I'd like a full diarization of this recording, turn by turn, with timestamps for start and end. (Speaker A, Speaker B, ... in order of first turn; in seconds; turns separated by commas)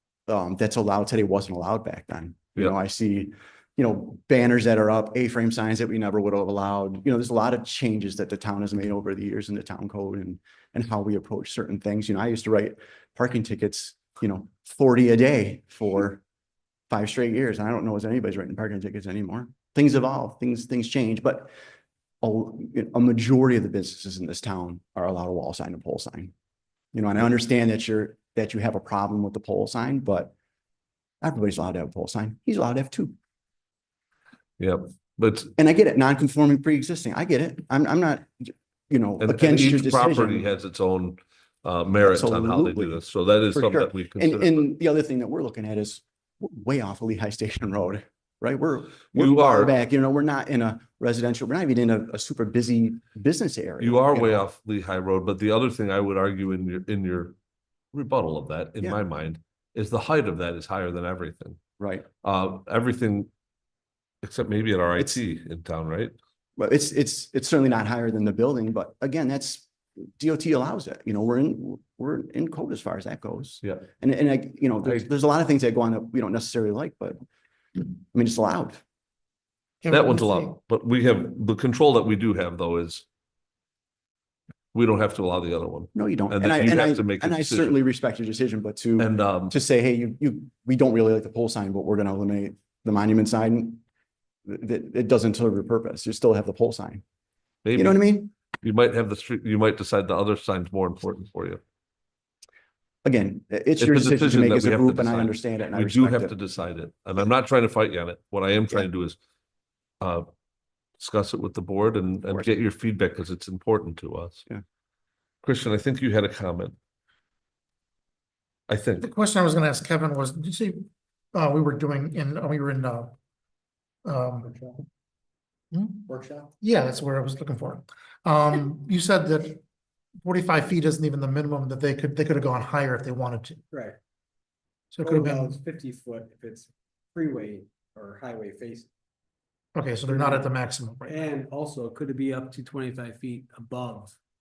Speaker A: 0.3-16.2, Speaker A: 16.9-21.5, Speaker A: 22.2-26.3, Speaker A: 26.9-30.3, Speaker A: 31.2-33.1, Speaker B: 34.6-35.5, Speaker A: 35.6-40.5, Speaker B: 39.2-44.5, Speaker A: 42.0-43.0, Speaker A: 43.5-54.5, Speaker B: 49.1-49.7, Speaker B: 53.8-57.3, Speaker B: 57.9-61.6, Speaker A: 61.8-62.0, Speaker B: 62.2-63.3, Speaker B: 64.2-66.1, Speaker A: 66.6-77.2, Speaker A: 78.1-78.8, Speaker C: 79.8-80.5, Speaker B: 79.9-83.0, Speaker B: 84.7-87.8, Speaker A: 85.9-93.8, Speaker B: 89.0-89.5, Speaker A: 94.5-97.0, Speaker B: 97.6-98.0, Speaker A: 97.7-98.3, Speaker B: 98.6-101.6, Speaker A: 103.0-106.3, Speaker B: 103.8-109.2, Speaker B: 110.0-110.2, Speaker B: 111.0-114.4, Speaker B: 115.4-116.8, Speaker B: 118.7-119.1, Speaker C: 119.0-123.1, Speaker C: 124.0-124.5, Speaker D: 124.5-124.8, Speaker C: 125.7-129.6, Speaker D: 126.1-126.5, Speaker C: 130.2-133.6, Speaker D: 133.7-134.0, Speaker C: 134.9-135.6, Speaker D: 135.0-138.9, Speaker C: 139.7-141.2, Speaker D: 140.1-140.5, Speaker D: 141.1-144.2